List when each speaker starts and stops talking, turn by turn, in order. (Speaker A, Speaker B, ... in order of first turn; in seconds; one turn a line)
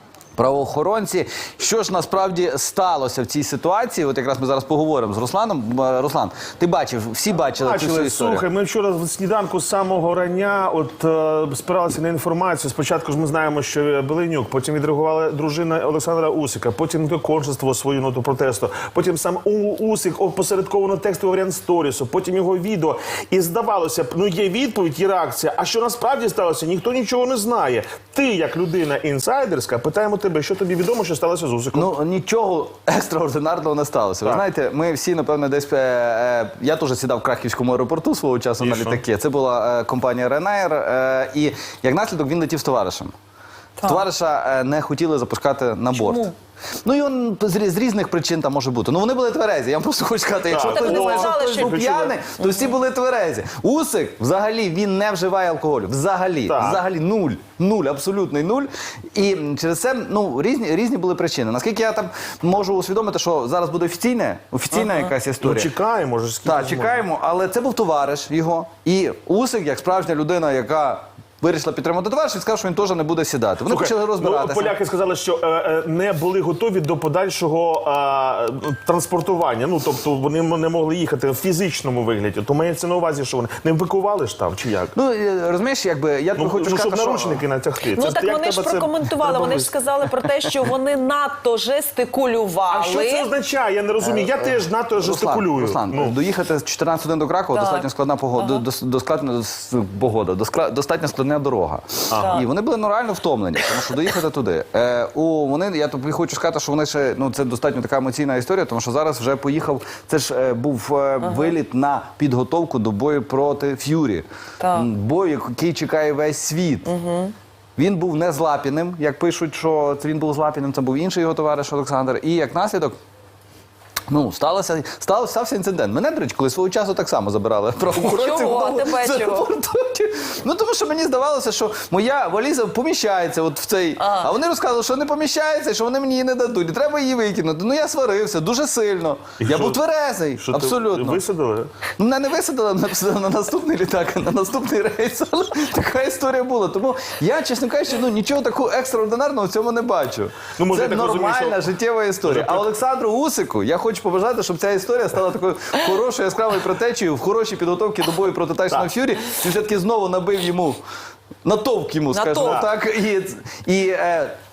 Speaker A: 0.3-8.4
Speaker B: 7.4-31.9
Speaker A: 31.7-43.1
Speaker B: 38.6-39.0
Speaker C: 43.8-44.0
Speaker A: 43.8-46.3
Speaker C: 45.9-46.3
Speaker A: 46.8-65.7
Speaker B: 50.5-52.2
Speaker C: 50.6-52.6
Speaker B: 56.5-56.8
Speaker B: 65.4-67.0
Speaker A: 66.4-74.7
Speaker B: 73.7-85.0
Speaker A: 84.9-87.4
Speaker B: 86.3-89.7
Speaker C: 87.9-93.3
Speaker B: 92.7-96.2
Speaker A: 94.0-116.9
Speaker C: 97.5-98.6
Speaker B: 102.1-102.4
Speaker C: 102.1-102.5
Speaker C: 111.2-111.5
Speaker C: 114.6-114.9
Speaker C: 116.8-117.3
Speaker A: 117.8-123.0
Speaker A: 124.1-141.2
Speaker C: 127.9-129.5
Speaker C: 134.0-134.3
Speaker B: 139.4-139.8
Speaker B: 140.4-141.7
Speaker A: 142.0-160.8
Speaker B: 150.6-151.6
Speaker B: 152.2-152.7
Speaker A: 161.4-164.4
Speaker C: 162.1-162.7
Speaker B: 162.4-162.7